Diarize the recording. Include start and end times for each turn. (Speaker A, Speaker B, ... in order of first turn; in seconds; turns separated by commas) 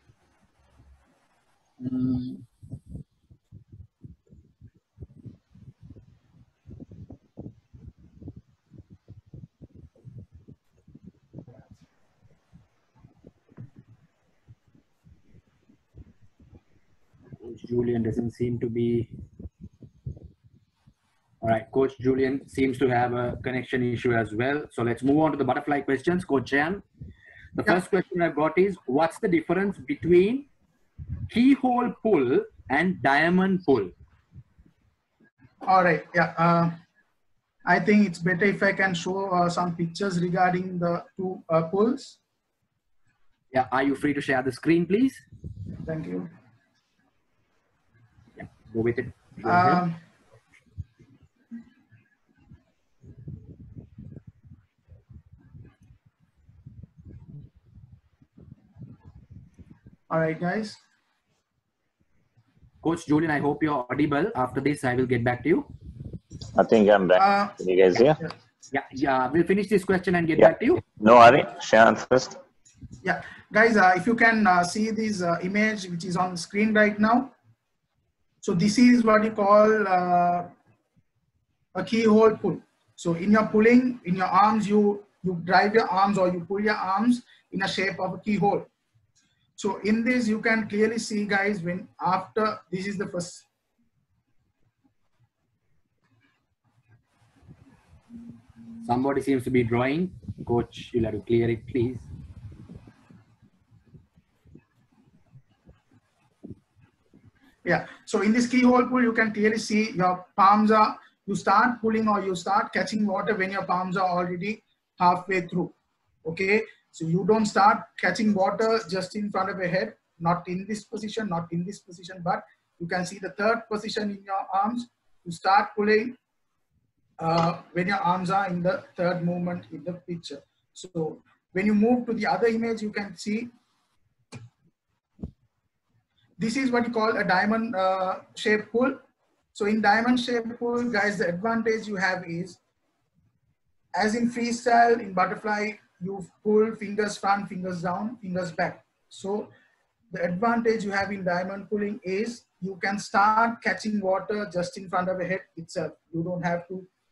Speaker A: 1.8-2.4, Speaker A: 17.4-19.1, Speaker A: 21.4-26.8, Speaker A: 27.5-30.5, Speaker A: 31.3-33.9, Speaker B: 35.6-36.8, Speaker B: 37.6-42.2, Speaker A: 43.5-45.2, Speaker B: 45.8-46.3, Speaker A: 48.4-49.8, Speaker B: 49.4-50.0, Speaker B: 60.1-60.8, Speaker A: 62.8-65.7, Speaker C: 66.5-68.2, Speaker B: 67.2-67.5, Speaker A: 68.7-70.8, Speaker C: 70.4-72.4, Speaker B: 73.0-77.3, Speaker B: 78.4-80.5, Speaker B: 81.7-88.7, Speaker B: 89.6-93.5, Speaker A: 98.8-102.1, Speaker B: 107.6-115.7, Speaker B: 116.2-126.2, Speaker B: 127.2-133.5, Speaker B: 136.4-139.0, Speaker B: 139.5-142.6, Speaker B: 143.9-149.5, Speaker B: 150.1-156.9